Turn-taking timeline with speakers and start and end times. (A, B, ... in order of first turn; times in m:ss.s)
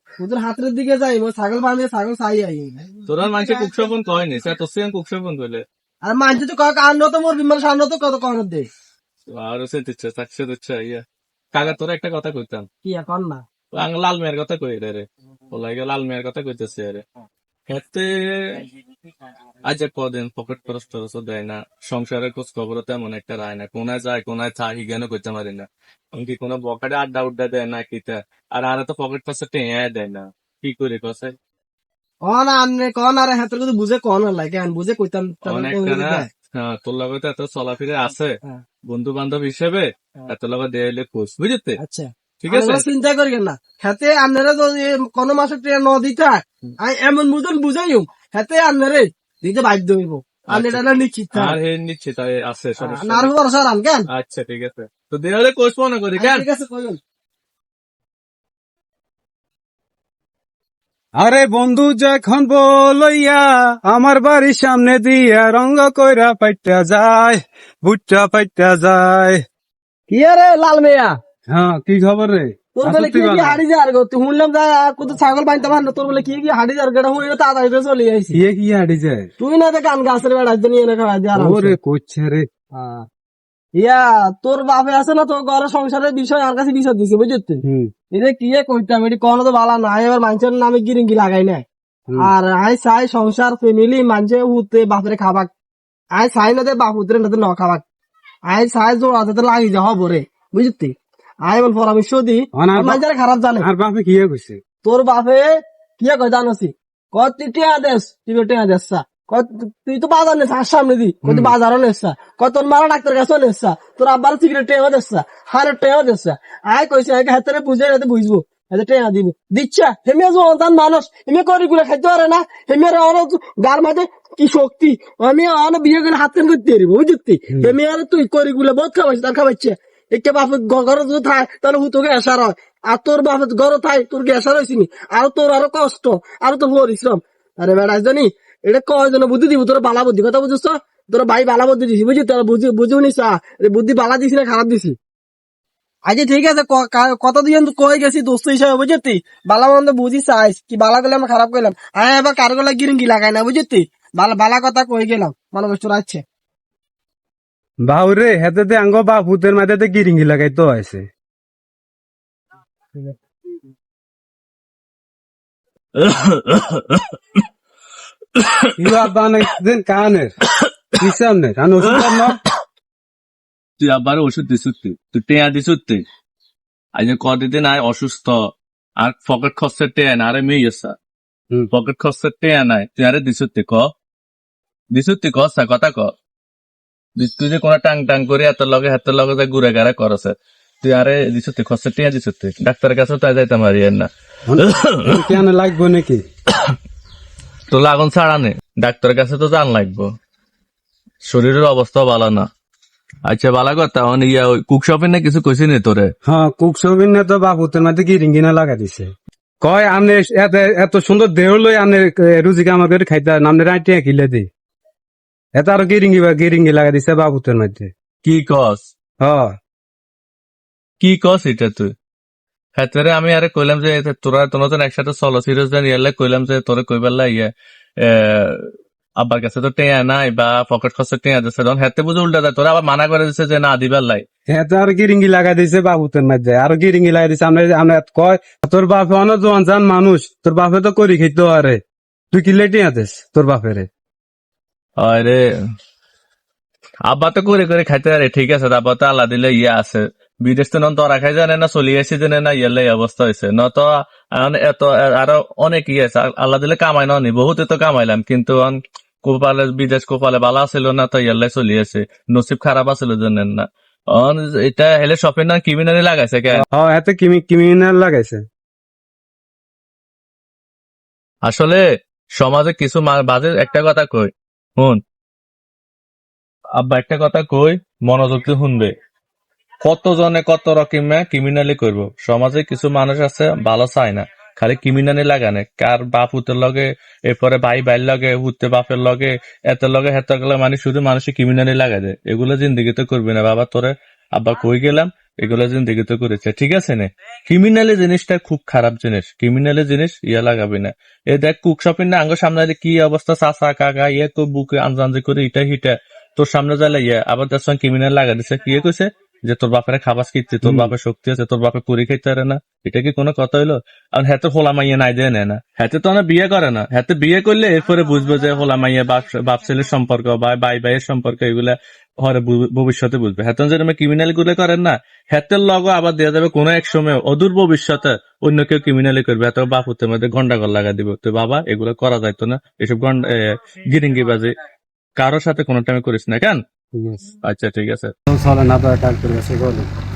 0:00.2-0:03.9 A
0:03.1-0:05.6 B
0:06.0-0:08.7 A
0:09.3-0:12.7 B
0:12.8-0:13.4 A
0:13.7-0:17.0 B
0:17.7-0:18.7 B
0:19.7-0:31.4 B
0:32.2-0:36.3 A
0:35.5-0:38.4 B
0:38.9-0:41.8 B
0:41.8-0:51.6 A
0:42.4-0:42.8 B
0:50.5-0:50.8 B
0:51.3-0:53.3 B
0:52.8-0:54.1 A
0:54.1-0:56.5 B
0:56.2-0:57.0 A
1:01.2-1:09.4 C
1:10.1-1:11.2 A
1:11.5-1:13.6 C
1:12.8-1:18.4 A
1:18.3-1:19.3 C
1:19.4-1:21.8 A
1:21.4-1:22.5 C
1:22.7-1:23.1 A
1:23.8-1:31.7 A
1:27.6-1:27.9 C
1:32.2-1:35.5 A
1:36.2-1:37.8 A
1:38.5-1:40.9 A
1:41.5-1:43.7 A
1:42.6-1:43.0 C
1:43.6-1:44.6 C
1:44.8-2:25.0 A
1:51.2-1:51.6 C
2:26.1-2:36.2 A
2:37.8-2:41.0 C
2:46.0-2:47.4 B
2:48.4-2:49.0 B
2:48.8-2:50.3 C
2:51.0-2:52.4 C
2:51.9-2:52.3 B
2:53.8-2:56.0 B
2:57.0-2:58.4 B
2:59.0-3:01.0 B
3:01.7-3:03.9 B
3:04.9-3:06.1 B
3:07.2-3:15.4 B
3:14.5-3:16.2 C
3:17.7-3:20.1 B
3:21.3-3:22.5 B
3:23.3-3:26.1 B
3:26.2-3:29.1 C
3:29.6-3:34.5 C
3:35.6-3:37.9 C
3:38.2-3:38.9 B
3:39.2-3:39.5 C
3:41.0-3:41.9 B
3:42.8-3:54.2 B
3:54.5-4:01.8 C
4:02.3-4:03.9 C
4:05.0-4:05.4 B
4:07.1-4:26.6 B
4:26.6-4:28.4 C
4:31.4-4:31.8 B
4:32.4-4:35.0 B
4:36.8-4:38.9 B
4:39.8-5:33.4 B
5:10.6-5:10.9 C
5:33.9-5:34.5 B
5:35.2-5:36.6 B
5:37.0-5:37.2 C
5:37.4-5:38.1 B
5:38.3-5:39.9 C